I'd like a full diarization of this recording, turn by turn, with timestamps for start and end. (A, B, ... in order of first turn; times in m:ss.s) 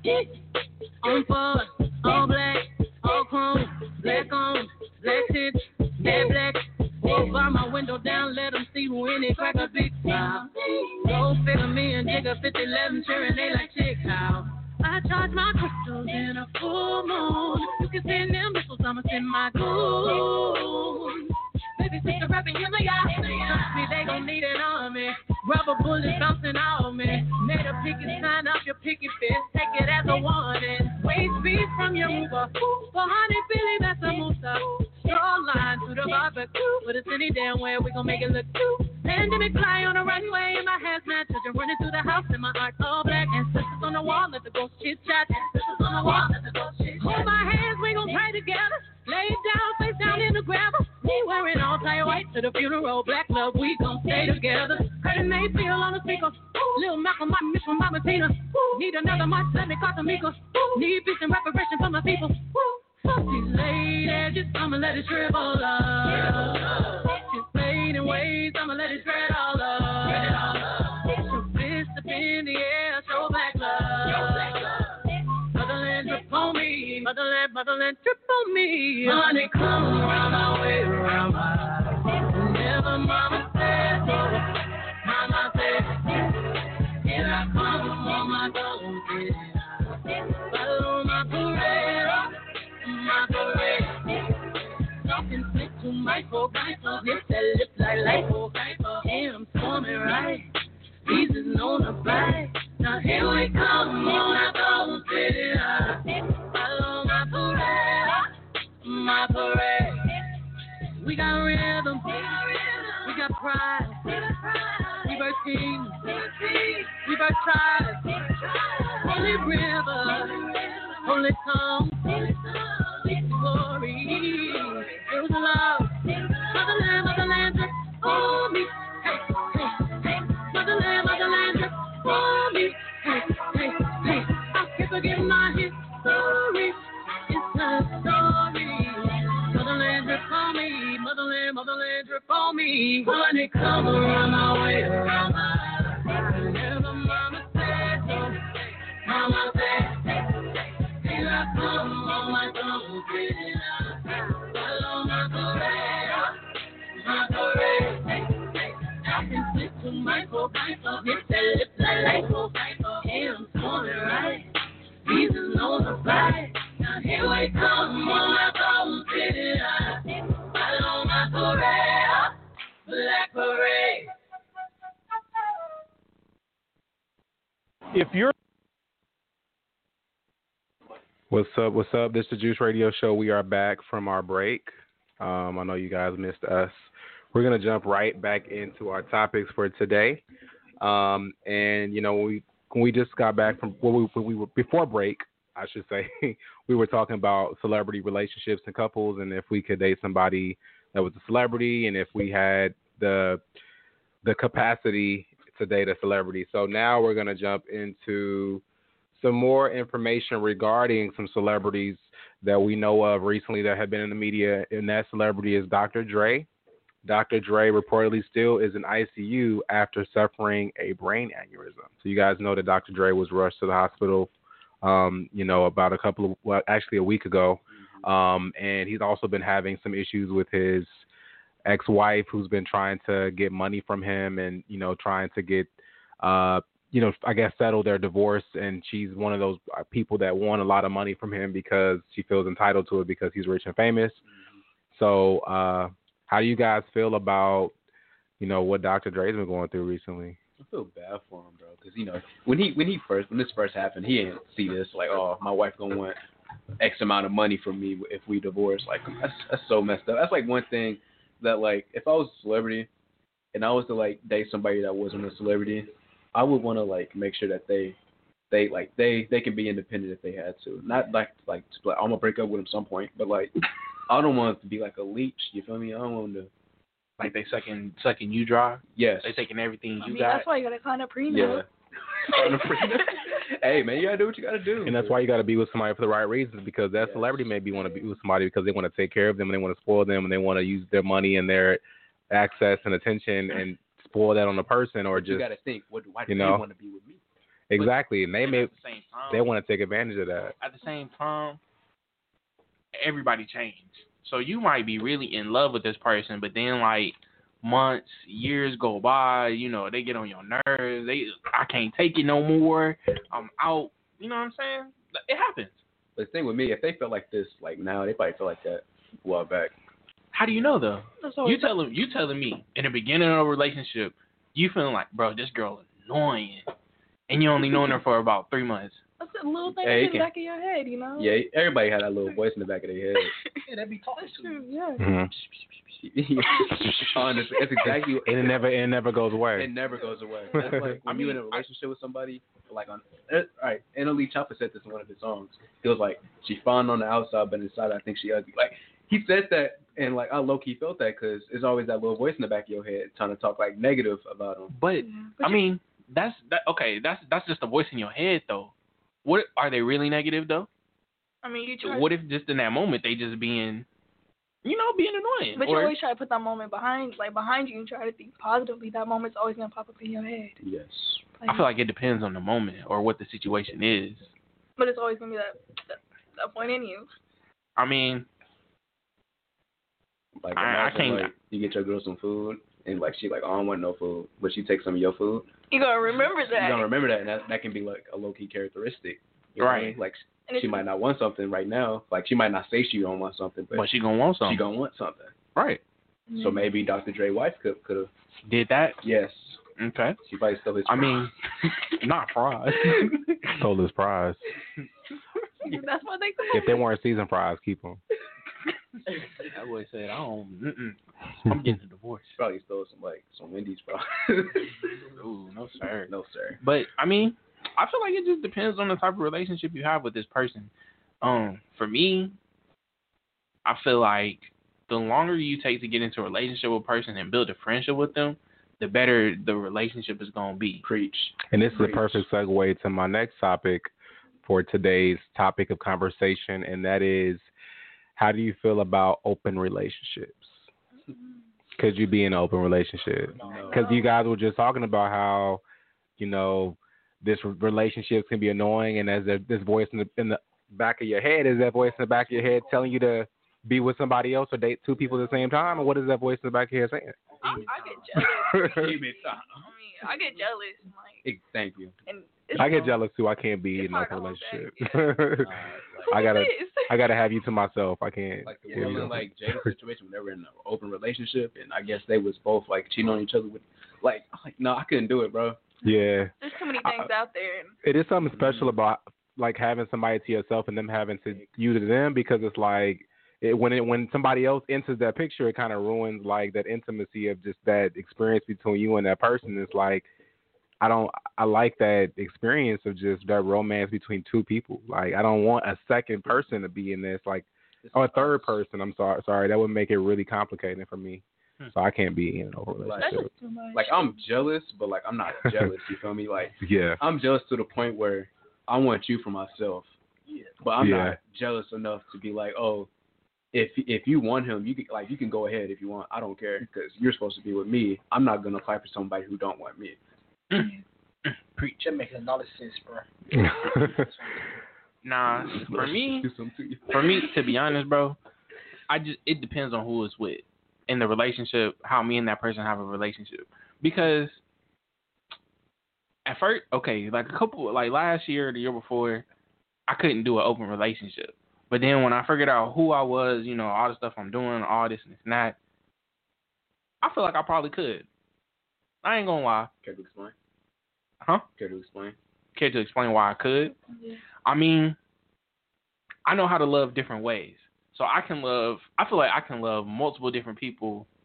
0:01.0-1:26.4 A
1:26.9-1:34.4 A
1:35.0-1:40.5 A
1:41.0-1:48.3 A
1:48.8-1:50.2 A
1:51.0-2:36.3 A
2:37.0-2:44.5 A
2:45.0-2:52.3 A
2:52.8-2:54.1 A
2:57.9-2:58.3 B
3:01.3-3:10.2 C
3:10.8-3:23.4 C
3:24.2-3:36.5 C
3:37.0-3:44.3 C
3:44.8-3:51.0 C
3:47.7-3:48.1 D
3:51.6-4:04.2 C
4:04.2-4:04.6 D
4:04.9-4:07.7 C
4:08.4-4:10.4 C
4:10.6-4:16.2 D
4:16.8-4:22.9 D
4:23.5-4:28.0 D
4:28.5-4:33.5 D
4:34.1-4:36.5 D
4:37.2-4:40.4 B
4:38.9-4:39.4 D
4:40.0-4:41.6 E
4:41.3-4:45.2 D
4:42.3-4:43.3 E
4:44.8-4:55.5 C
4:47.0-4:47.5 D
4:55.1-4:57.2 D
4:56.3-4:56.6 C
4:57.7-4:58.7 C
4:57.8-4:59.5 B
4:59.3-5:00.5 C
5:00.6-5:01.6 B
5:02.9-5:15.8 B
5:16.2-5:19.7 D
5:20.3-5:26.6 B
5:21.2-5:21.7 E
5:27.3-5:29.0 B
5:29.2-5:31.3 E
5:29.8-5:30.3 D
5:31.2-5:33.3 D
5:33.7-5:34.6 F
5:34.2-5:35.0 E
5:35.0-5:35.3 C
5:36.0-5:38.5 D
5:37.8-5:39.7 C
5:39.6-5:54.7 D
5:40.5-5:41.0 C
5:40.9-5:41.6 B
5:54.7-5:58.7 B
5:55.0-5:55.6 E
5:59.2-6:00.7 B
6:01.4-6:02.1 E
6:01.8-6:03.8 B
6:04.6-6:05.9 B
6:05.6-6:10.6 E
6:10.6-6:11.2 D
6:11.4-6:11.7 E
6:11.5-6:14.3 B
6:14.8-6:17.1 E
6:17.8-6:18.3 B
6:20.4-6:25.5 D
6:20.6-6:21.3 B
6:25.7-6:26.9 E
6:26.5-6:33.9 D
6:29.6-6:30.0 B
6:30.5-6:30.9 E
6:33.7-6:34.6 B
6:34.4-6:35.3 D
6:35.6-6:35.8 B
6:36.3-6:36.8 E
6:36.3-6:38.1 D
6:38.5-6:39.0 B
6:39.0-6:39.6 D
6:39.8-6:40.2 B
6:40.2-6:41.3 D
6:40.8-6:43.4 B
6:43.4-6:44.4 C
6:45.6-6:46.8 E
6:46.5-6:48.0 C
6:49.4-6:52.4 B
6:52.4-6:55.0 D
6:55.2-7:00.7 B
6:56.1-6:56.6 D
7:01.2-7:02.4 B
7:03.6-7:10.8 B
7:10.8-7:12.2 D
7:11.5-7:13.9 C
7:14.4-7:17.5 C
7:18.2-7:20.6 C
7:21.1-7:21.4 E
7:21.8-7:25.6 C
7:23.4-7:23.9 D
7:23.4-7:23.7 F
7:23.6-7:24.1 E
7:26.2-7:37.4 C
7:32.4-7:32.8 D
7:37.4-7:41.2 E
7:37.4-7:40.4 D
7:38.2-7:39.0 C
7:41.2-7:41.9 D
7:42.1-7:43.0 E
7:42.5-7:45.6 C
7:43.8-7:45.4 E
7:45.4-7:46.2 D
7:46.0-7:47.0 E
7:46.1-7:49.3 C
7:48.4-7:55.6 D
7:55.8-7:57.1 C
7:55.9-7:57.8 E
7:57.8-8:10.1 C
7:58.3-7:58.7 D
8:10.8-8:23.3 C
8:17.8-8:18.4 D
8:22.8-8:29.9 D
8:23.0-8:24.2 E
8:25.4-8:25.7 C
8:26.6-8:27.0 C
8:30.6-8:32.9 D
8:30.8-8:31.2 C
8:33.5-8:40.0 D
8:40.6-8:40.8 E
8:41.2-8:41.9 B
8:41.8-8:44.4 F
8:43.4-8:43.9 C
8:45.0-8:46.3 B
8:45.3-8:47.3 D
8:46.9-8:48.2 B
8:48.9-8:54.4 B
8:56.2-8:59.2 B
8:59.9-9:05.6 B
9:07.0-9:08.1 B
9:09.0-9:09.7 B
9:09.8-9:10.3 D
9:11.6-9:12.2 D
9:12.5-9:13.7 B
9:13.9-9:14.2 E
9:14.4-9:15.0 B
9:16.2-9:21.1 B